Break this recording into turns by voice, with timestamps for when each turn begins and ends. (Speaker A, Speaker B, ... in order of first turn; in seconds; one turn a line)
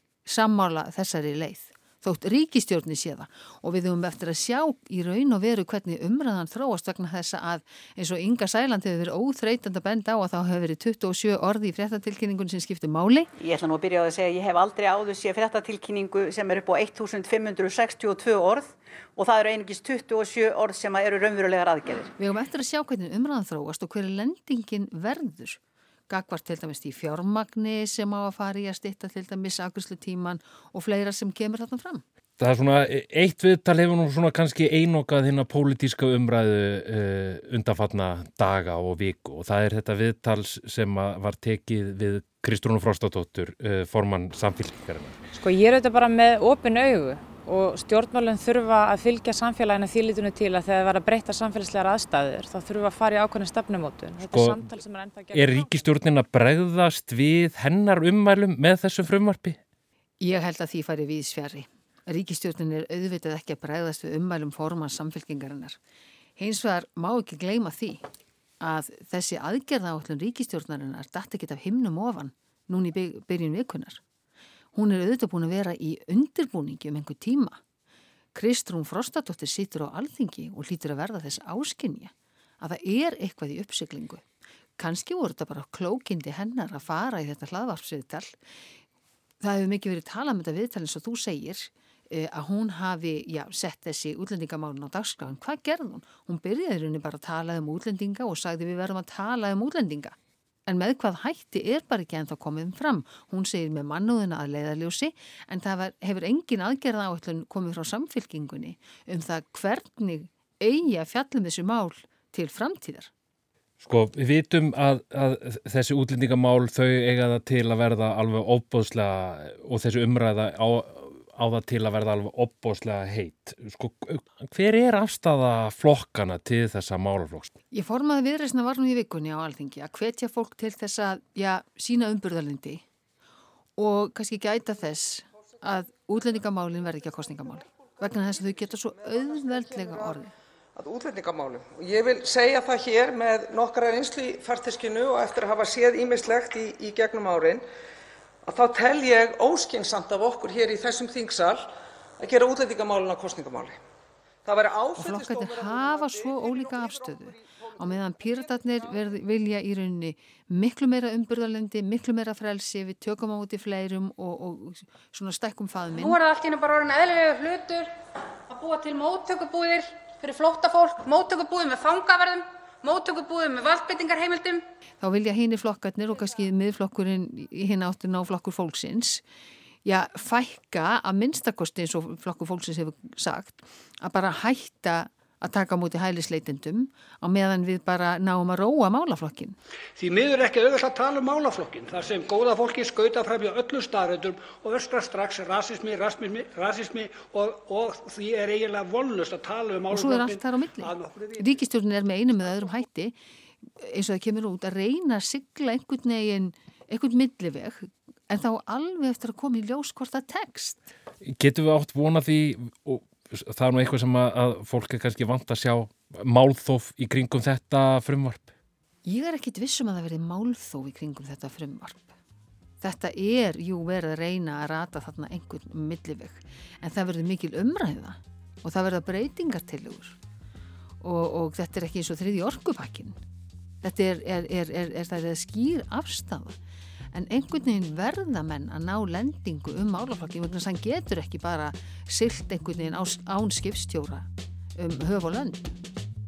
Speaker A: 0.2-13.3
Speaker B: 13.4-22.1
Speaker A: 22.2-32.0
Speaker C: 32.4-45.3
Speaker D: 45.4-55.9
Speaker C: 54.2-54.6
Speaker C: 55.3-59.6
Speaker A: 60.2-65.8
Speaker A: 66.4-68.0
Speaker A: 68.6-74.0
Speaker A: 74.7-77.6
Speaker A: 78.3-84.2
Speaker A: 84.8-88.3
Speaker A: 89.4-100.2
Speaker A: 100.7-113.1
Speaker C: 113.8-127.5
Speaker A: 127.7-132.8
Speaker A: 133.8-140.3
Speaker E: 140.8-147.6
Speaker E: 148.4-153.8
Speaker E: 154.4-155.8
Speaker A: 155.0-166.2
Speaker F: 165.9-167.9
Speaker F: 168.5-174.6
Speaker A: 175.0-179.2
Speaker A: 179.8-189.6
Speaker G: 190.0-201.5
Speaker A: 199.9-203.2
Speaker A: 203.8-210.8
Speaker C: 211.2-218.5
Speaker A: 219.1-222.2
Speaker A: 222.8-230.2
Speaker A: 231.0-233.2
Speaker A: 233.8-236.6
Speaker A: 237.1-245.7